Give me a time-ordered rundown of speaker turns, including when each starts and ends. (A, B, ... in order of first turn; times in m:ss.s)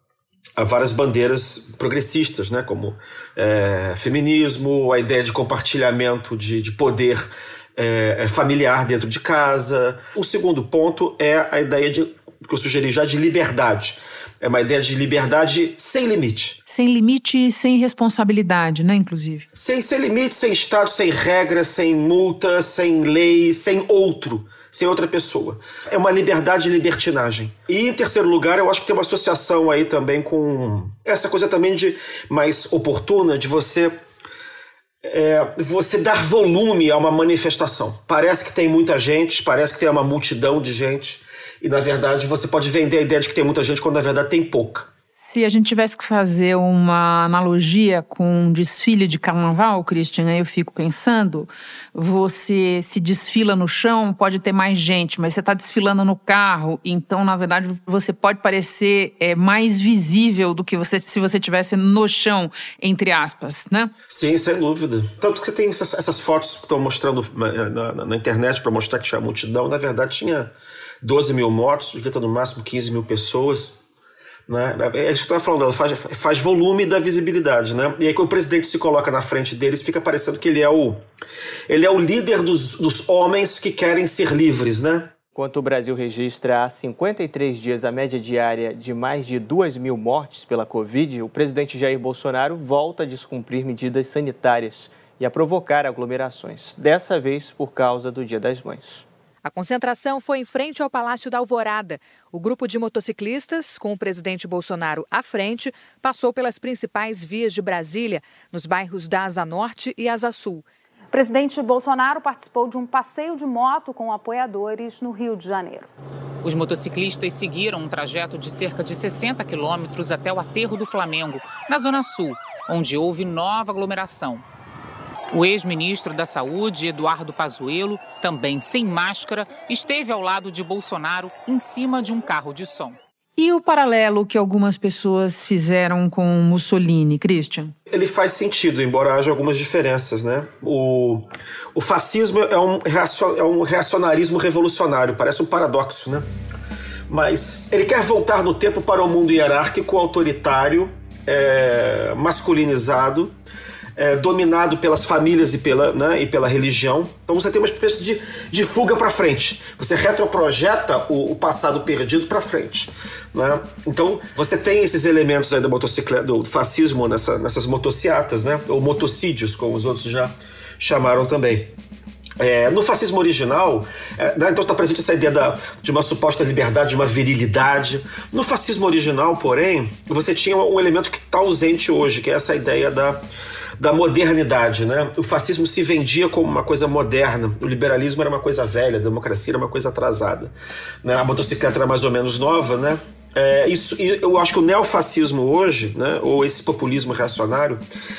0:00.6-0:16.6 A
0:16.7-0:19.5 B
0:19.6-0:34.0 A
0:35.0-0:44.9 A
0:45.3-1:03.9 B
1:04.1-1:10.5 A
1:11.0-1:13.8 A
1:14.5-1:21.0 A
1:21.7-1:25.1 A
1:25.3-1:39.0 C
1:39.4-1:50.6 D
1:51.1-1:55.9 E
1:56.4-2:04.4 F
2:05.3-2:13.0 F
2:13.4-2:17.7 B
2:17.9-2:26.3 A
2:27.1-2:33.3 A
2:34.0-2:51.7 A
2:52.4-3:03.2 A
3:03.8-3:10.5 A
3:11.0-3:17.8 A